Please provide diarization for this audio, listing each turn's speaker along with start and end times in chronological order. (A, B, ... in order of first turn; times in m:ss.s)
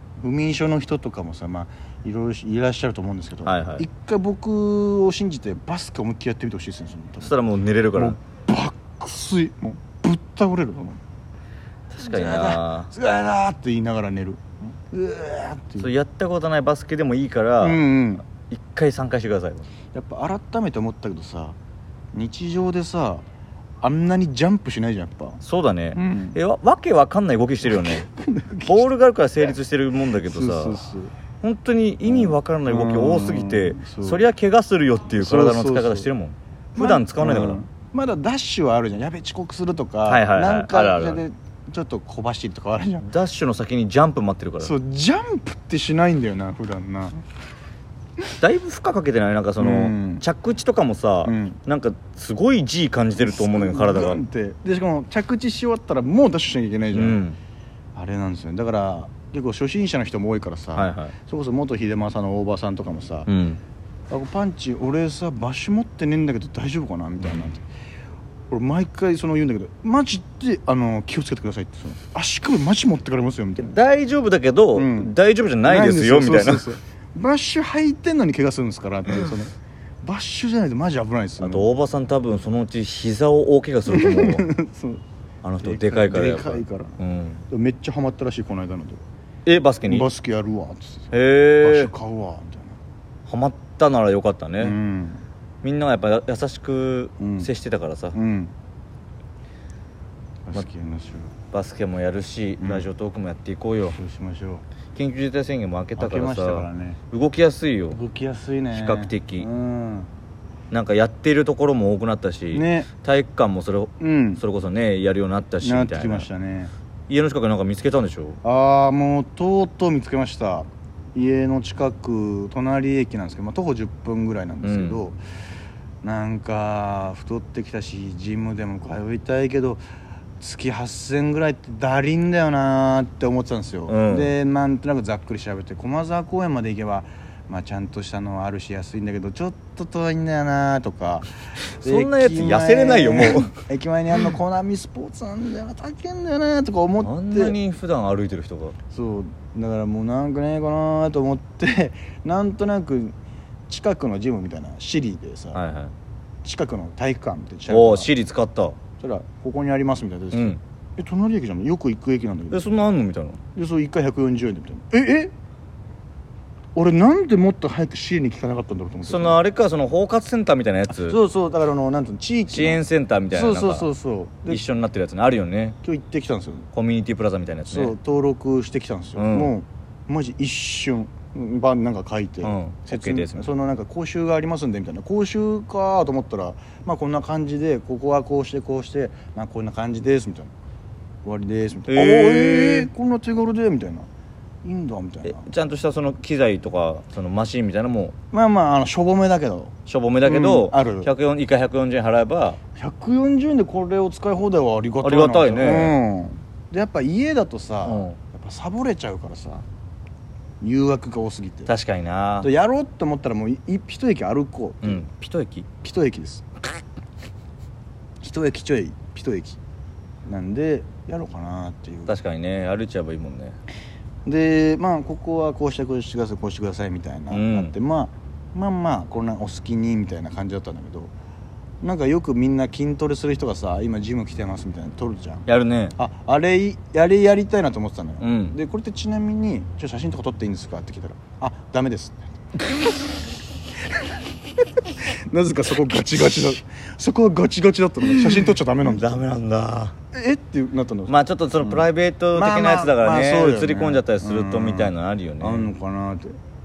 0:00.2-0:07.4 A
0:03.4-0:03.8 B
0:07.2-0:08.2 B
0:07.9-0:11.0 A
0:11.9-0:12.9 B
0:12.0-0:15.9 A
0:15.8-0:17.8 B
0:17.6-0:18.2 A
0:18.4-0:19.7 B
0:19.9-0:21.6 A
0:22.1-0:23.2 A
0:23.8-0:25.4 A
0:25.4-0:28.1 B
0:25.9-0:26.4 A
0:27.7-0:28.9 A
0:28.6-0:30.8 B
0:30.2-0:31.1 A
0:31.4-0:37.6 B
0:32.0-0:34.3 A
0:35.1-0:36.1 A
0:36.8-0:43.1 A
0:40.1-0:41.2 B
0:43.0-0:44.7 B
0:44.6-0:47.2 A
0:48.4-0:54.2 B
0:49.6-0:50.2 A
0:51.2-0:51.6 A
0:53.2-0:57.2 A
0:56.9-0:57.4 B
0:58.0-1:03.3 A
1:00.8-1:01.1 B
1:03.3-1:03.6 B
1:04.1-1:07.7 A
1:08.5-1:13.8 A
1:13.6-1:16.7 B
1:14.8-1:21.7 A
1:21.4-1:24.5 B
1:23.9-1:25.0 A
1:25.4-1:27.4 B
1:25.6-1:27.0 A
1:27.5-1:29.0 A
1:29.5-1:30.1 B
1:29.9-1:32.8 A
1:31.1-1:31.9 B
1:33.3-1:34.8 B
1:34.6-1:35.2 A
1:35.6-1:38.2 B
1:37.2-1:37.5 A
1:38.2-1:38.5 A
1:40.5-1:41.3 A
1:41.5-1:44.0 B
1:42.6-1:42.9 A
1:43.9-1:44.6 A
1:45.0-1:48.0 B
1:46.0-1:47.0 A
1:47.9-1:50.1 A
1:48.7-1:49.5 B
1:50.7-1:56.3 B
1:52.5-1:52.9 A
1:54.0-1:54.4 A
1:55.6-1:56.7 A
1:57.1-1:58.4 B
1:58.4-2:05.2 A
2:04.6-2:05.0 B
2:06.0-2:09.8 A
2:10.4-2:21.3 A
2:13.9-2:14.3 B
2:21.8-2:27.6 A
2:21.8-2:23.6 B
2:27.0-2:28.8 B
2:28.9-2:33.2 A
2:33.7-2:35.6 A
2:35.5-2:35.9 B
2:36.4-2:38.1 A
2:37.7-2:38.8 B
2:39.0-2:42.7 A
2:40.3-2:40.6 B
2:42.5-2:43.4 B
2:43.6-2:45.3 A
2:46.8-2:49.4 A
2:49.0-2:51.2 B
2:50.9-2:54.6 A
2:52.5-2:53.9 B
2:54.5-2:55.8 B
2:55.8-2:56.7 A
2:56.7-2:58.0 B
2:57.7-3:10.5 A
2:59.2-2:59.5 B
3:02.4-3:03.5 B
3:11.2-3:14.1 A
3:11.9-3:12.9 B
3:14.6-3:15.5 A
3:15.2-3:18.2 B
3:18.3-3:21.1 A
3:19.9-3:22.6 B
3:22.8-3:29.6 A
3:25.0-3:26.0 B
3:27.9-3:28.2 B
3:30.6-3:31.7 A
3:31.7-3:32.5 B
3:32.4-3:35.0 A
3:34.8-3:35.7 B
3:35.8-3:36.5 A
3:38.2-3:39.6 A
3:40.3-3:42.2 A
3:42.1-3:43.6 B
3:44.2-3:51.1 A
3:47.3-3:47.7 B
3:51.8-4:02.3 A
3:55.5-3:56.0 B
3:58.2-3:58.6 B
4:05.0-4:09.2 A
4:08.8-4:10.0 B
4:10.1-4:16.4 A
4:11.1-4:15.7 B